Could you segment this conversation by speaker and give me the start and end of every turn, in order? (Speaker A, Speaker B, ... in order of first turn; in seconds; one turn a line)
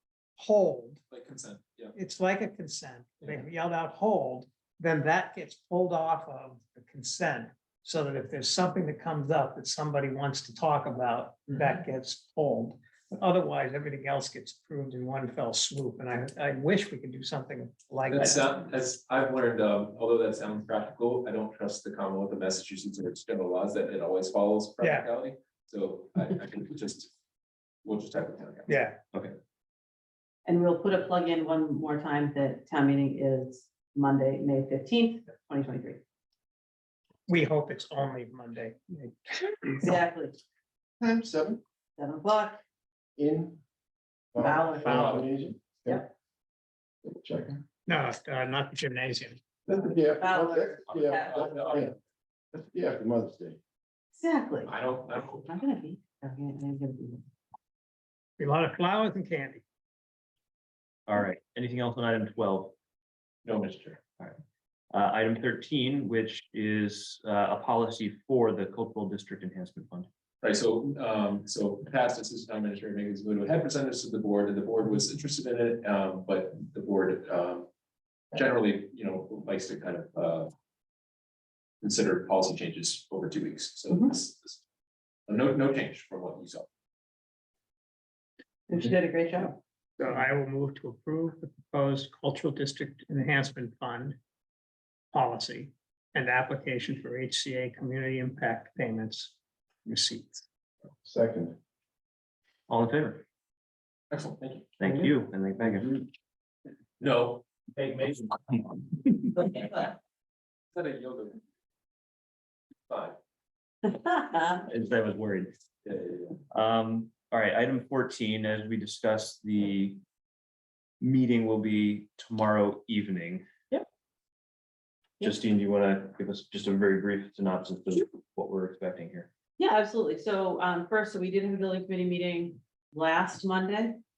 Speaker A: 0.4-1.0
Speaker B: 1.1-2.0
Speaker A: 1.9-18.5
Speaker B: 18.1-27.1
Speaker A: 24.8-25.1
Speaker B: 27.8-28.8
Speaker A: 28.7-29.0
Speaker C: 30.4-36.0
Speaker A: 37.3-39.9
Speaker C: 39.8-40.4
Speaker D: 41.0-41.6
Speaker C: 42.0-42.6
Speaker D: 43.2-43.6
Speaker D: 44.3-46.1
Speaker C: 44.4-45.3
Speaker A: 44.8-45.2
Speaker D: 47.0-47.6
Speaker A: 47.9-49.4
Speaker D: 49.7-51.9
Speaker C: 50.2-51.8
Speaker B: 50.9-51.9
Speaker D: 52.5-53.6
Speaker C: 54.1-57.2
Speaker B: 54.7-55.5
Speaker A: 58.4-59.6
Speaker E: 61.1-62.8
Speaker B: 63.4-64.0
Speaker E: 64.9-70.1
Speaker B: 70.4-77.7
Speaker B: 78.3-80.5
Speaker B: 81.8-84.6
Speaker B: 85.3-86.7
Speaker C: 88.7-89.6
Speaker A: 90.0-94.2
Speaker A: 95.1-100.4
Speaker D: 101.0-101.6
Speaker E: 102.7-103.2
Speaker B: 104.1-104.8
Speaker E: 104.8-106.0
Speaker D: 104.8-106.0
Speaker B: 107.0-108.4
Speaker B: 110.7-111.4
Speaker B: 112.9-113.2
Speaker C: 113.8-114.6
Speaker E: 114.7-115.5
Speaker B: 115.8-116.4
Speaker E: 116.5-120.0
Speaker E: 121.0-123.5
Speaker E: 125.2-129.3
Speaker C: 129.6-134.0